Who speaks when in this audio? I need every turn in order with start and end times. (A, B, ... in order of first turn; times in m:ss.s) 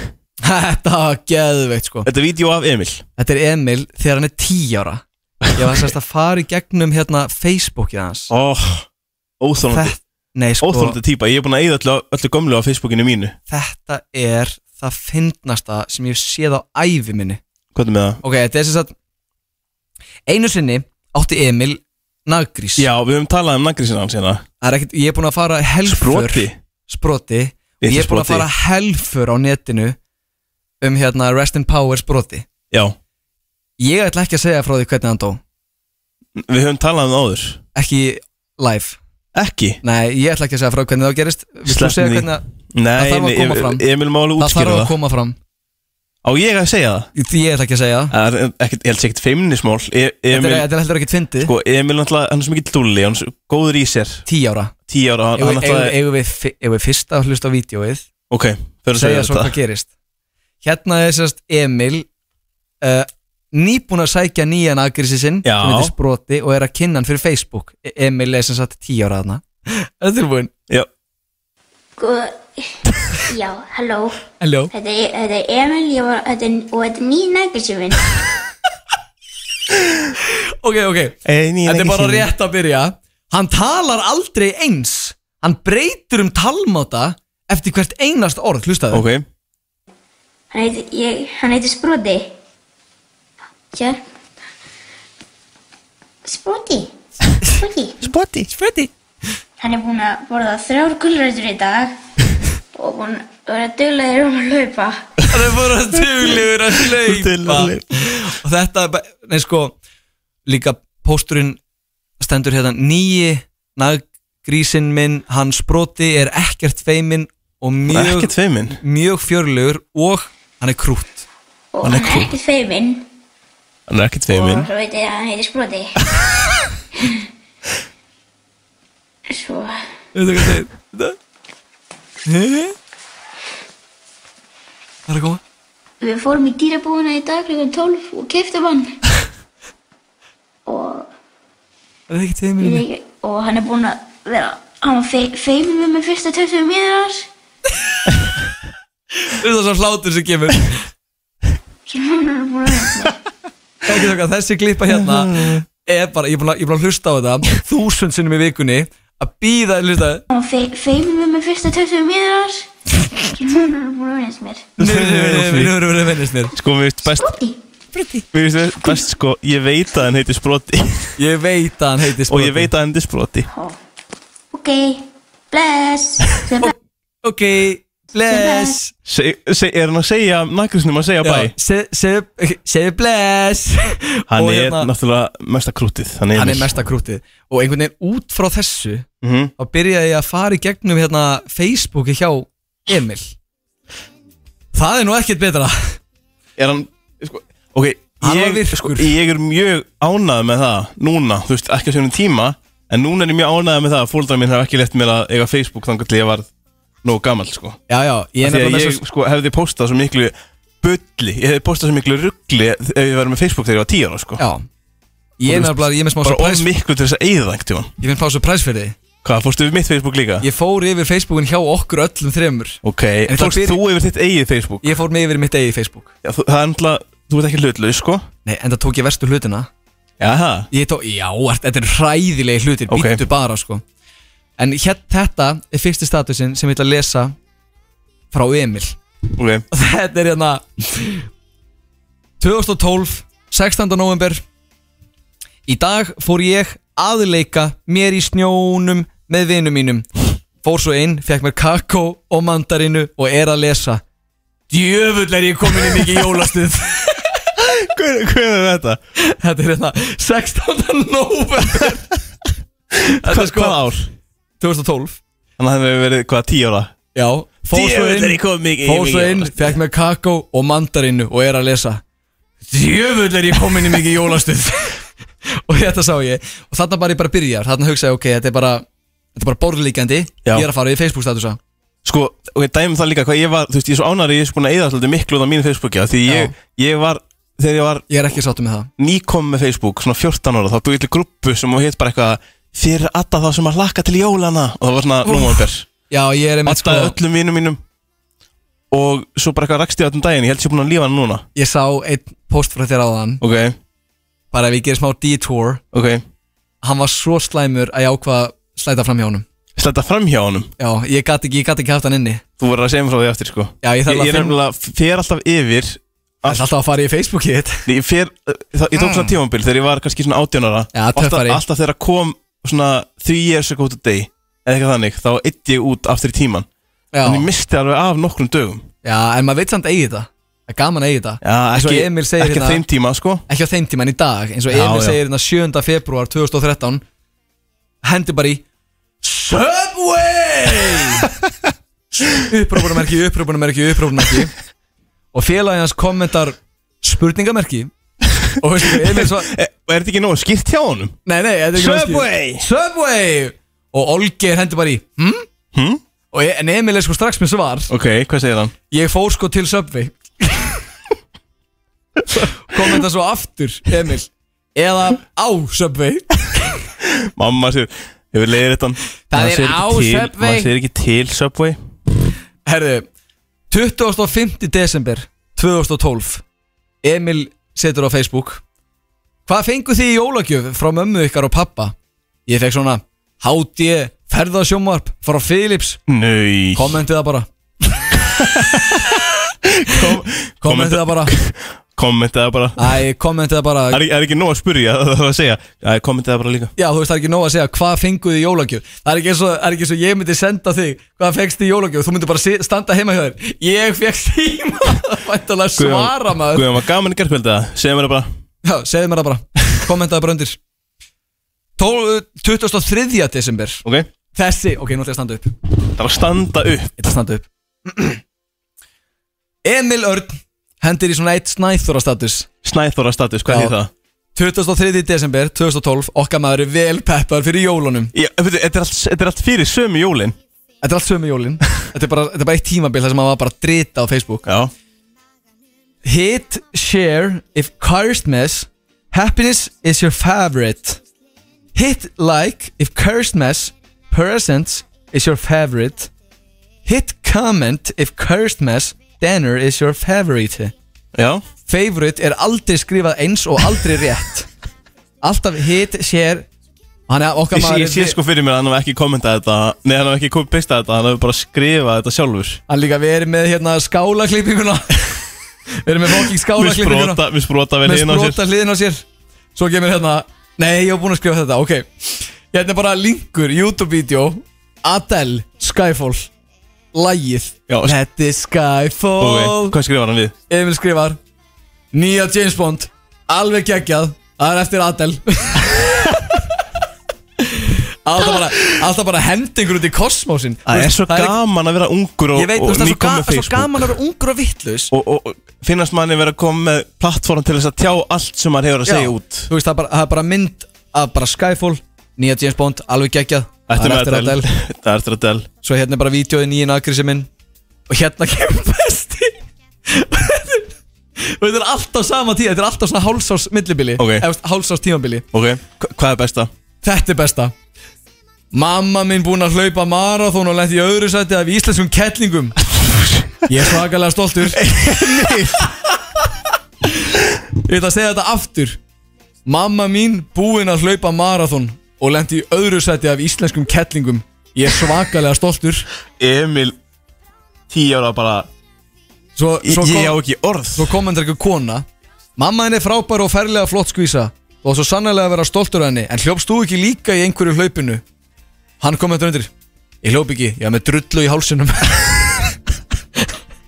0:00.4-0:02.1 A
0:02.0-0:03.0 B
0:03.2-0:05.0 A
0:05.5-0:08.3 A
0:08.3-0:08.9 B
0:09.4-0:10.0 B
0:09.6-0:11.0 A
0:10.6-0:13.4 B
0:13.5-0:17.4 A
0:17.8-0:18.2 B
0:18.2-0:18.9 A
0:20.3-0:22.9 A
0:22.8-0:24.4 B
0:24.6-0:30.0 A
0:25.8-0:26.6 B
0:27.8-0:28.5 B
0:30.8-0:32.5 A
0:33.8-0:35.4 A
0:36.4-0:37.6 B
0:37.8-0:39.0 A
0:39.3-0:39.8 B
0:39.8-0:42.4 A
0:41.7-0:44.9 B
0:43.0-0:43.8 A
0:44.4-0:45.4 A
0:46.2-0:47.1 B
0:47.2-0:48.1 A
0:48.1-0:50.7 B
0:50.3-0:51.5 A
0:51.4-0:54.2 B
0:54.3-0:54.7 A
0:54.9-0:56.0 B
0:55.4-0:58.0 A
0:58.3-0:59.6 B
0:58.9-0:59.9 A
1:00.6-1:02.1 A
1:02.8-1:10.5 A
1:05.4-1:05.9 B
1:12.0-1:12.6 C
1:13.2-1:18.1 C
1:14.4-1:14.7 A
1:20.6-1:29.0 A
1:21.2-1:22.3 B
1:28.9-1:29.3 B
1:30.5-1:32.3 C
1:33.7-1:34.0 C
1:36.2-1:36.9 C
1:37.5-1:38.0 C
1:38.0-1:38.7 B
1:38.6-1:38.9 A
1:39.6-1:42.0 C
1:42.8-1:45.1 C
1:45.3-1:49.8 A
1:46.1-1:48.0 B
1:50.5-1:51.6 A
1:52.2-2:01.3 A
1:57.9-1:58.8 B
2:01.7-2:03.1 C
2:01.8-2:02.3 B
2:03.9-2:04.7 B
2:04.3-2:06.0 C
2:09.3-2:09.8 C
2:10.2-2:11.2 A
2:12.3-2:12.7 A
2:15.1-2:15.4 A
2:16.0-2:19.0 C
2:20.7-2:21.1 C
2:22.1-2:22.8 A
2:22.6-2:27.3 C
2:29.2-2:30.8 A
2:31.9-2:33.2 C
2:33.9-2:40.2 A
2:34.9-2:35.6 B
2:40.3-2:42.7 C
2:43.3-2:44.7 C
2:44.8-2:45.8 B
2:44.8-2:46.5 A
2:46.5-2:47.4 B
2:47.2-2:47.6 C
2:48.0-2:48.2 A
2:48.3-2:51.2 B
2:51.2-2:52.7 A
2:52.3-2:53.5 B
2:54.5-2:56.7 C
2:56.6-2:58.9 A
2:58.3-2:58.8 C
2:59.1-3:01.5 B
3:01.2-3:04.9 A
3:04.3-3:06.8 B
3:06.3-3:09.1 A
3:09.2-3:09.5 B
3:09.6-3:13.4 A
3:14.7-3:16.0 A
3:16.6-3:26.5 B
3:18.2-3:19.1 A
3:27.0-3:27.8 B
3:27.9-3:29.0 A
3:28.4-3:34.4 B
3:34.4-3:34.6 A
3:35.4-3:36.7 A
3:35.5-3:37.9 B
3:38.0-3:39.0 A
3:39.2-3:40.4 B
3:40.4-3:43.8 A
3:42.8-3:45.0 B
3:44.8-3:46.1 A
3:46.2-3:48.3 B
3:48.4-3:49.7 A
3:50.2-3:50.7 B
3:50.7-3:53.8 A
3:52.9-3:53.2 B
3:54.6-3:57.3 A
3:58.3-3:59.0 A
3:59.4-3:59.6 B
3:59.7-4:01.3 A
4:02.4-4:04.4 A
4:05.7-4:10.1 A
4:10.6-4:14.0 A
4:14.7-4:17.3 A
4:15.7-4:16.3 B
4:17.6-4:19.0 B
4:19.2-4:22.1 A
4:23.1-4:24.1 B
4:23.2-4:23.8 A
4:24.6-4:25.2 A
4:25.6-4:26.9 B
4:27.2-4:32.0 A
4:27.7-4:29.8 B
4:32.7-4:35.0 A
4:35.7-4:38.8 A
4:39.4-4:41.6 A
4:42.0-4:48.1 B
4:46.3-4:46.5 A
4:48.1-4:48.9 A
4:49.0-4:55.9 B
4:55.2-4:57.2 A
4:56.7-4:57.8 B
4:58.9-5:01.4 B
5:01.6-5:03.4 A
5:03.4-5:03.8 B
5:04.5-5:05.8 A
5:05.9-5:06.2 B
5:06.8-5:09.4 A
5:09.8-5:10.7 B
5:10.8-5:12.4 A
5:12.6-5:16.6 B
5:13.8-5:14.6 A
5:16.5-5:17.8 A
5:17.9-5:26.7 B
5:19.0-5:19.3 A
5:20.9-5:21.6 A
5:27.1-5:27.5 A
5:27.2-5:28.9 B
5:29.0-5:32.8 A
5:31.4-5:33.4 B
5:33.5-5:37.0 A
5:34.7-5:35.2 B
5:38.0-5:38.6 A
5:39.2-5:41.3 A
5:42.4-5:44.5 A
5:45.3-5:47.9 A
5:48.6-5:49.5 A
5:48.8-5:51.2 B
5:51.3-5:55.5 A
5:51.8-5:52.6 B
5:55.7-5:56.0 B
5:56.3-5:57.9 A
5:57.9-5:58.7 B
5:58.9-6:00.8 A
6:02.4-6:02.8 B
6:02.6-6:06.8 A
6:07.2-6:11.8 B
6:09.3-6:10.7 A
6:12.7-6:13.1 A
6:13.7-6:16.4 A
6:17.0-6:18.6 A
6:19.5-6:22.0 A
6:22.5-6:26.0 A
6:26.1-6:27.0 B
6:26.8-6:27.5 A
6:28.1-6:33.0 B
6:30.6-6:31.4 A
6:32.8-6:34.0 A
6:33.9-6:36.7 B
6:36.8-6:46.7 A
6:45.8-6:48.3 B
6:48.6-6:50.6 A
6:51.8-6:53.8 A
6:54.4-6:55.5 A
6:55.9-6:56.9 B
6:57.0-6:58.2 A
6:59.6-7:02.5 A
7:02.6-7:03.9 B
7:03.5-7:03.8 A
7:04.4-7:08.1 A
7:08.1-7:10.4 B
7:10.8-7:14.4 A
7:14.4-7:14.7 B
7:16.0-7:21.0 A
7:21.8-7:26.1 A
7:26.8-7:30.7 A
7:31.1-7:31.4 B
7:31.7-7:34.5 A
7:35.2-7:36.5 A
7:37.1-7:38.2 A
7:37.5-7:42.6 B
7:42.7-7:45.2 A
7:45.8-7:47.2 A
7:46.2-7:48.4 B
7:47.8-7:49.0 A
7:49.6-7:56.3 A
7:56.9-7:59.8 A
7:57.7-7:58.0 B
7:59.2-8:00.3 B
8:00.5-8:01.2 A
8:01.9-8:06.1 A
8:07.4-8:11.4 A
8:08.2-8:08.5 B
8:10.7-8:14.0 B
8:12.4-8:14.9 A
8:14.9-8:19.5 B
8:18.8-8:24.5 A
8:23.7-8:25.5 B
8:25.6-8:27.3 A
8:27.9-8:29.4 A
8:29.9-8:35.2 A
8:34.0-8:34.3 B
8:35.3-8:36.5 B
8:36.8-8:37.5 A
8:38.5-8:42.6 A
8:42.8-8:43.3 B
8:43.4-8:45.7 A
8:44.5-8:45.7 B
8:47.6-8:48.8 A
8:49.5-8:55.9 A
8:56.2-8:56.8 B
8:57.7-8:58.5 B
8:59.4-9:00.2 A
8:59.6-9:01.0 B
9:00.8-9:01.8 A
9:02.4-9:08.0 A
9:08.8-9:09.5 A
9:10.0-9:12.5 A